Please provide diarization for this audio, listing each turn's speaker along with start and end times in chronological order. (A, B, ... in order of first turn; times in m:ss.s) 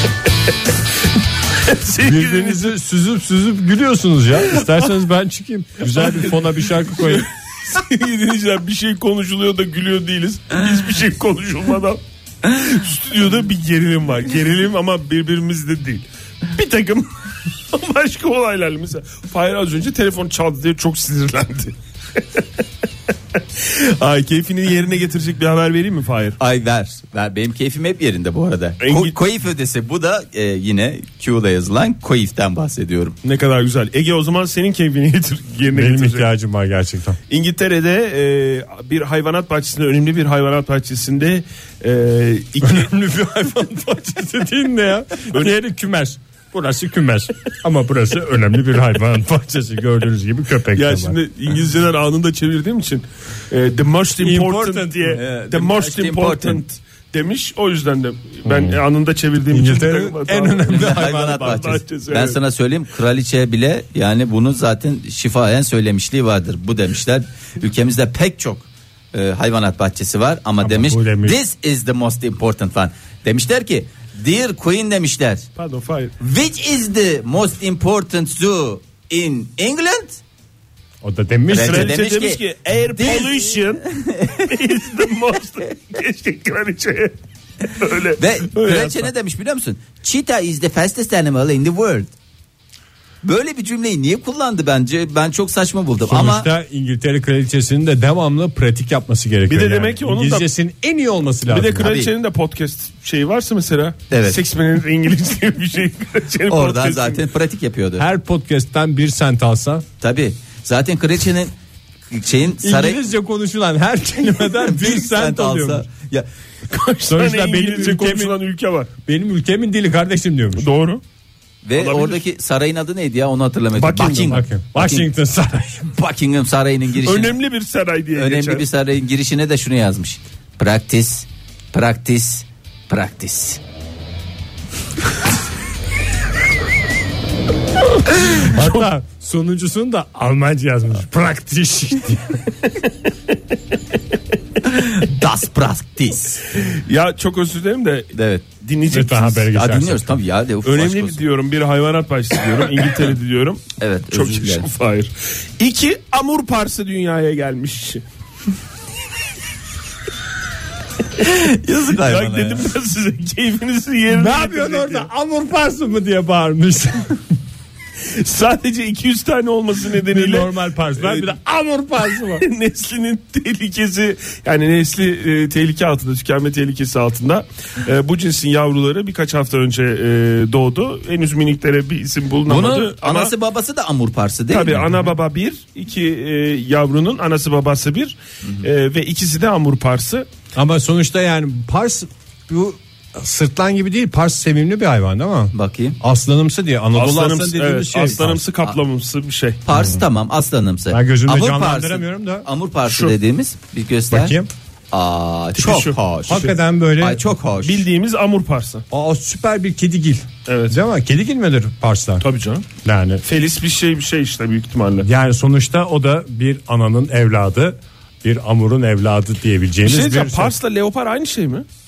0:01.6-0:02.7 A
0:02.0-0:07.3 B
0:04.4-0:04.9 A
0:05.9-0:17.1 A
0:17.7-0:22.4 A
0:23.4-0:26.4 A
0:26.4-0:33.2 C
0:28.8-0:29.2 A
0:33.2-0:36.3 A
0:35.7-0:37.2 B
0:37.3-0:42.9 A
0:42.6-0:51.2 B
0:50.8-1:02.4 A
0:54.2-0:55.2 B
0:55.2-0:56.6 C
0:58.5-0:58.8 B
0:59.5-1:01.6 B
1:00.7-1:15.5 C
1:10.6-1:11.4 B
1:15.6-1:16.1 A
1:16.2-1:20.2 C
1:21.0-1:22.0 B
1:21.5-1:22.4 C
1:21.5-1:27.2 A
1:22.9-1:24.5 C
1:27.7-1:29.1 A
1:28.2-1:32.1 C
1:33.2-1:36.5 C
1:36.1-1:41.9 B
1:39.5-1:40.5 A
1:41.5-1:47.2 A
1:41.8-1:42.1 C
1:44.1-1:44.4 C
1:46.5-1:48.0 C
1:48.0-1:49.8 B
1:50.0-1:51.5 C
1:52.1-1:53.0 C
1:52.6-1:55.9 B
1:54.5-1:56.3 C
1:56.7-1:58.9 A
1:57.1-1:58.4 B
1:59.1-2:00.7 B
2:00.6-2:01.0 A
2:01.6-2:05.1 C
2:01.8-2:02.2 A
2:03.8-2:04.4 A
2:04.3-2:05.9 B
2:05.9-2:07.4 C
2:07.0-2:08.6 A
2:08.2-2:13.6 C
2:18.2-2:22.5 B
2:18.6-2:18.8 A
2:24.7-2:26.4 C
2:26.5-2:29.5 A
2:28.1-2:28.5 C
2:28.9-2:30.1 B
2:29.5-2:31.2 C
2:30.6-2:38.0 A
2:33.8-2:34.7 C
2:41.2-2:42.7 C
2:41.9-2:45.1 A
2:44.1-2:47.3 B
2:48.1-2:51.3 A
2:50.0-2:52.5 B
2:52.4-3:03.3 A
3:02.5-3:04.8 C
3:04.5-3:10.3 A
3:10.6-3:18.4 B
3:15.5-3:16.0 C
3:17.0-3:19.6 A
3:18.1-3:18.8 C
3:19.6-3:24.4 C
3:19.7-3:20.0 B
3:20.9-3:22.5 B
3:22.9-3:23.2 A
3:24.1-3:24.5 B
3:24.9-3:27.8 C
3:25.6-3:26.5 A
3:26.3-3:27.2 B
3:27.6-3:28.8 A
3:28.9-3:32.2 B
3:30.5-3:30.8 A
3:32.2-3:32.6 A
3:32.8-3:33.2 B
3:33.2-3:35.1 A
3:35.0-3:40.5 B
3:39.8-3:41.6 A